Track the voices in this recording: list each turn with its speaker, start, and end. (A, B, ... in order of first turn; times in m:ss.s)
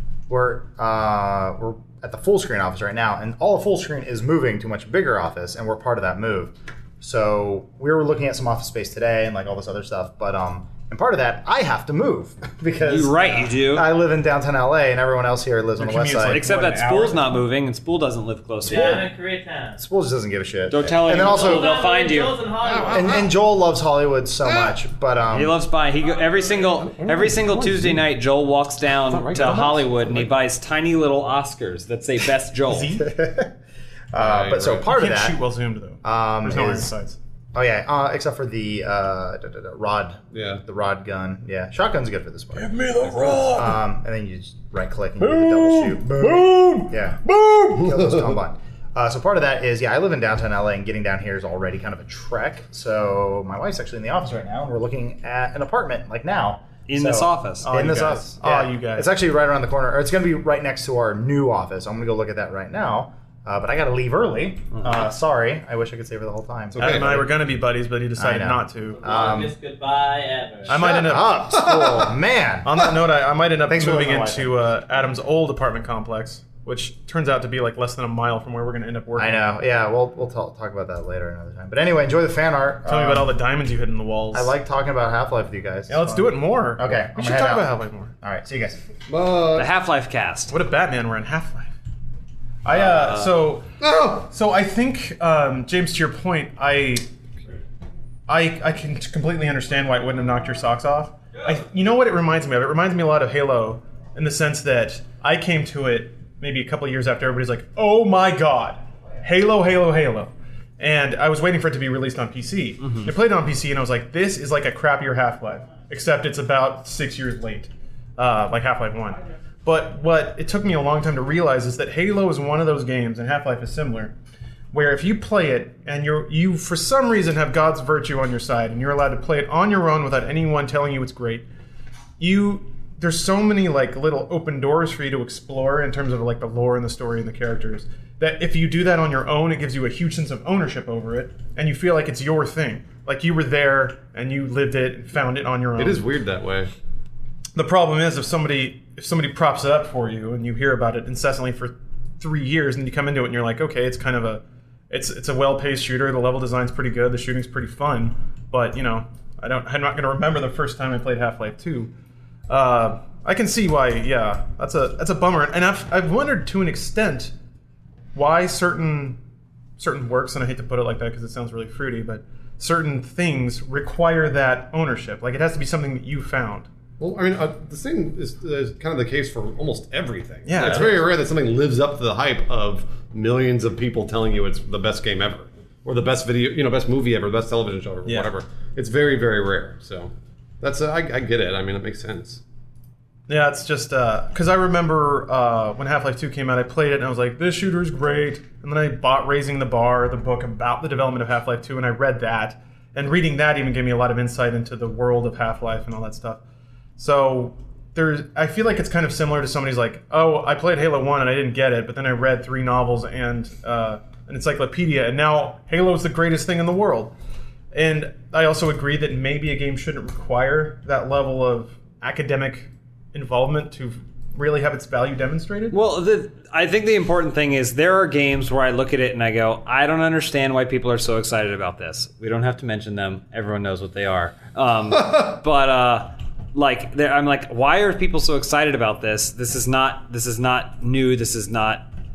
0:00.3-0:16.4 A
0:12.8-0:13.9 B
0:15.8-0:17.3 C
0:16.3-0:19.0 B
0:18.6-0:19.8 D
0:19.8-0:21.8 A
0:20.7-0:22.4 B
0:21.2-0:23.2 D
0:22.6-0:23.3 E
0:22.9-0:25.6 A
0:24.4-0:24.8 E
0:25.3-0:33.0 B
0:26.8-0:28.1 E
0:29.1-0:30.2 E
0:29.3-0:29.8 C
0:32.7-0:33.1 C
0:33.0-0:33.5 A
0:34.1-0:35.4 A
0:34.2-0:34.9 E
0:34.7-0:37.2 C
0:36.0-0:36.9 A
0:37.5-0:42.7 A
0:40.3-0:40.6 E
0:42.5-0:43.8 C
0:43.0-0:43.5 E
0:43.5-0:47.2 A
0:45.2-0:48.0 C
0:47.7-1:07.2 A
0:56.9-0:57.7 B
0:57.6-0:59.1 C
1:06.8-1:07.2 E
1:06.8-1:09.1 C
1:08.2-1:09.5 A
1:09.0-1:10.8 D
1:10.7-1:12.9 A
1:10.7-1:11.4 C
1:11.5-1:12.1 E
1:12.6-1:19.4 C
1:13.7-1:14.6 A
1:19.2-1:23.3 A
1:22.8-1:24.5 C
1:24.3-1:27.7 A
1:25.9-1:28.1 C
1:28.2-1:28.8 A
1:29.1-1:29.7 E
1:29.5-1:30.5 B
1:30.5-1:31.7 C
1:32.6-1:37.0 C
1:32.7-1:33.3 B
1:33.8-1:34.3 E
1:38.3-2:04.1 C
2:04.7-2:11.4 C
2:12.2-2:26.0 C
2:25.8-2:26.7 E
2:27.5-2:41.9 C
2:42.5-2:47.3 C
2:48.1-2:49.2 C
2:49.8-2:56.7 C
2:57.0-3:12.4 E
3:00.4-3:01.1 C
3:08.0-3:08.3 C
3:13.3-3:26.4 C
3:27.0-3:37.1 C
3:37.7-3:45.8 C
3:45.7-4:01.9 B